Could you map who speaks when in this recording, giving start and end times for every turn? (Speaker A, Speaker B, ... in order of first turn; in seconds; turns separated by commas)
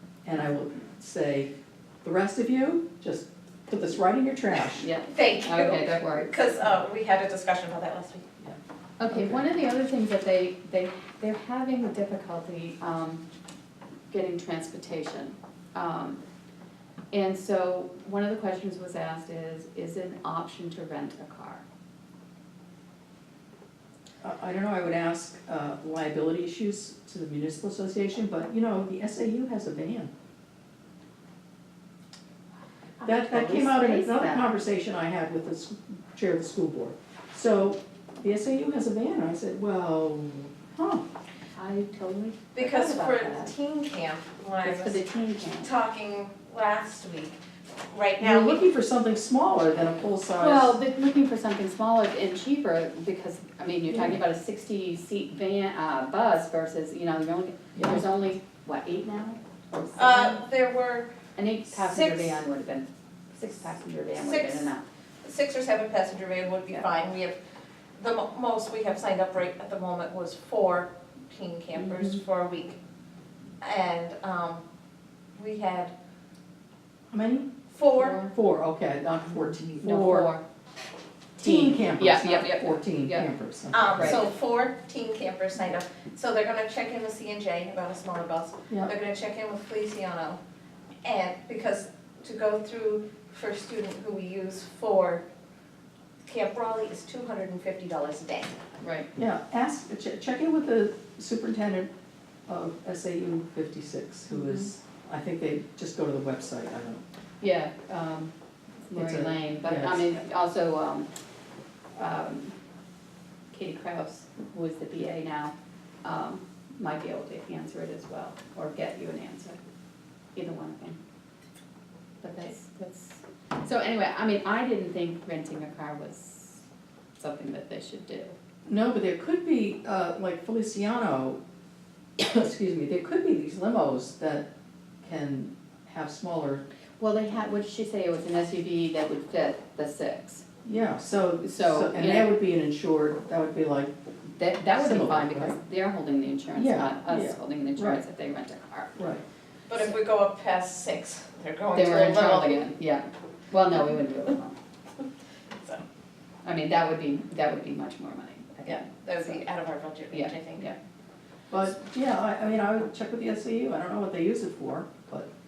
Speaker A: 0.2-1.5, Speaker A: 2.0-4.9, Speaker B: 4.8-6.5, Speaker C: 5.1-8.3, Speaker A: 8.4-9.4, Speaker B: 9.0-13.2, Speaker B: 14.1-16.2, Speaker B: 17.1-21.6, Speaker A: 24.2-30.1, Speaker B: 33.0-34.5, Speaker A: 33.0-41.0, Speaker B: 41.5-43.5, Speaker C: 42.5-45.0, Speaker B: 44.6-45.7, Speaker C: 45.6-47.4, Speaker C: 47.9-48.6, Speaker A: 48.2-50.7, Speaker B: 50.4-60.4, Speaker A: 53.9-54.2, Speaker A: 57.7-58.0, Speaker C: 60.0-61.1, Speaker B: 61.4-64.8, Speaker C: 61.7-62.4, Speaker C: 64.1-64.7, Speaker C: 65.2-67.4, Speaker C: 68.0-72.8, Speaker B: 71.7-72.2, Speaker C: 73.6-74.6, Speaker C: 75.3-75.9, Speaker A: 77.1-77.5, Speaker C: 77.7-78.2, Speaker B: 78.0-78.3, Speaker A: 78.2-80.3, Speaker B: 79.3-80.4, Speaker B: 81.4-83.3, Speaker A: 81.4-84.2, Speaker C: 83.7-90.4, Speaker B: 83.9-84.2, Speaker C: 91.0-95.2, Speaker C: 96.2-98.6, Speaker B: 98.8-99.1, Speaker A: 99.2-101.9, Speaker A: 102.5-107.0, Speaker B: 104.3-104.7, Speaker B: 107.4-108.3, Speaker B: 108.8-111.1, Speaker A: 108.9-110.1, Speaker B: 112.0-112.5, Speaker B: 113.5-119.6, Speaker B: 120.3-121.0, Speaker B: 122.2-126.7, Speaker B: 127.2-128.3, Speaker A: 128.7-131.4, Speaker A: 132.2-134.5, Speaker A: 135.0-136.6, Speaker B: 137.0-140.4, Speaker A: 140.6-143.9, Speaker B: 141.4-142.4, Speaker B: 144.4-148.9, Speaker A: 144.7-145.6, Speaker A: 146.5-148.0, Speaker A: 148.9-149.2, Speaker C: 149.7-152.7, Speaker B: 151.7-154.5, Speaker B: 156.4-159.4, Speaker C: 158.6-160.7, Speaker B: 160.1-160.8, Speaker A: 161.5-165.3